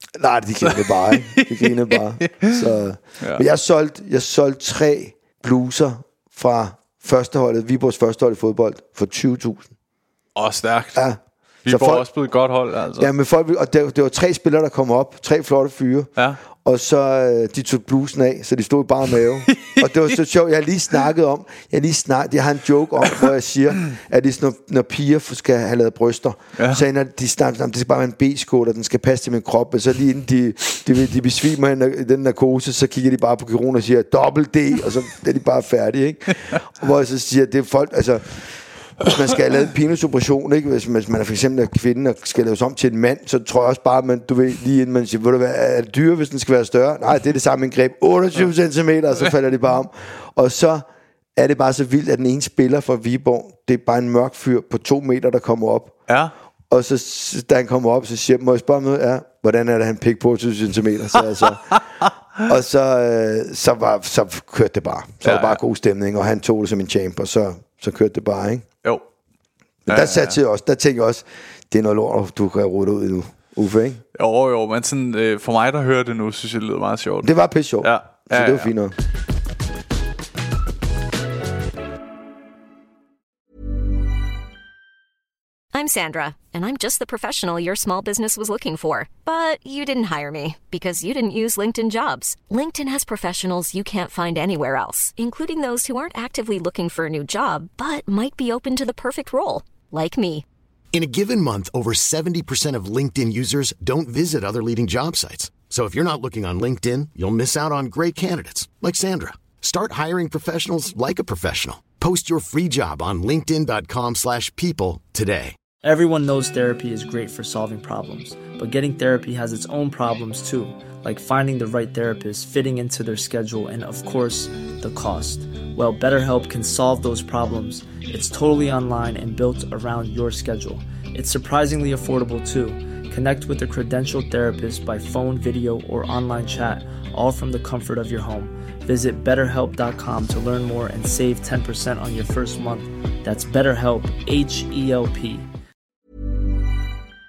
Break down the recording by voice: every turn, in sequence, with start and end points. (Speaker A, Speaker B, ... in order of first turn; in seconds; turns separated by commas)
Speaker A: 0.1-9.7, Speaker B: 0.6-2.6, Speaker B: 10.3-11.0, Speaker A: 10.9-12.1, Speaker B: 11.6-13.1, Speaker A: 13.0-38.5, Speaker B: 19.5-20.1, Speaker B: 26.6-26.8, Speaker A: 39.0-50.8, Speaker A: 51.4-55.9, Speaker B: 56.1-56.3, Speaker A: 56.7-61.8, Speaker B: 61.4-62.1, Speaker A: 62.4-68.6, Speaker B: 65.2-65.6, Speaker A: 69.8-74.0, Speaker B: 69.9-70.4, Speaker B: 74.1-77.3, Speaker A: 77.2-78.9, Speaker B: 77.8-78.7, Speaker C: 85.7-100.4, Speaker D: 100.9-115.5, Speaker E: 115.8-145.5